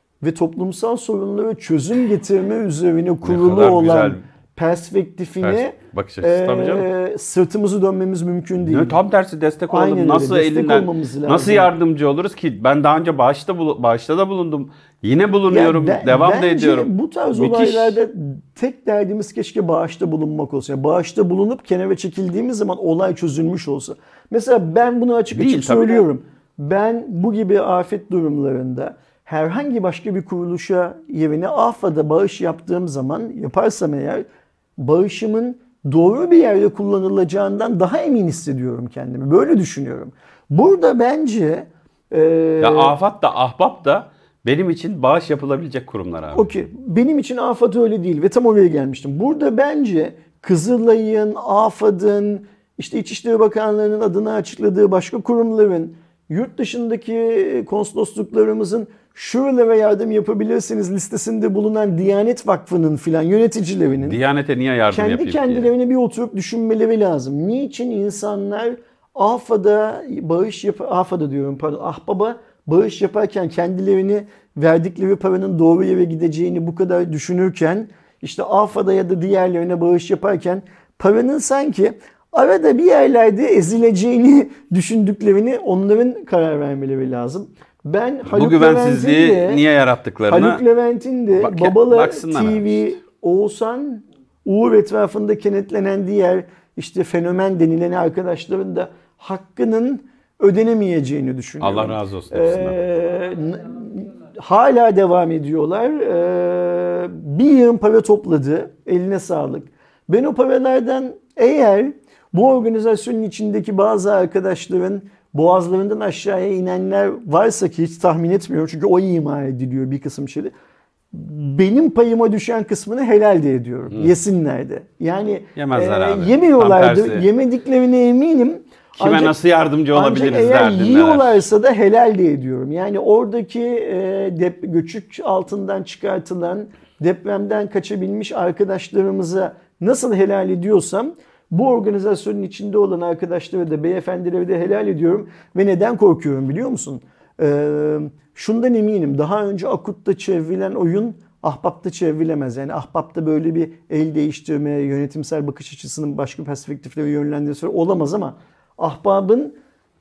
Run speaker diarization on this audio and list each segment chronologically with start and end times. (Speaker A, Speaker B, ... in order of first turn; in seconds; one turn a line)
Speaker A: 0.2-9.0
Speaker B: 3.2-4.2
Speaker B: 5.4-6.9
Speaker B: 8.6-18.0
Speaker A: 9.7-11.7
Speaker A: 15.5-34.2
Speaker B: 25.3-26.1
Speaker A: 34.8-42.9
Speaker B: 42.6-46.5
Speaker A: 46.3-64.2
Speaker B: 64.0-65.7
Speaker A: 64.9-89.6
Speaker B: 88.2-90.6
Speaker A: 90.3-120.5
Speaker B: 91.3-92.8
Speaker B: 101.6-102.8
Speaker A: 121.1-129.3
Speaker B: 125.5-127.2
Speaker B: 129.0-131.4
Speaker A: 129.9-159.6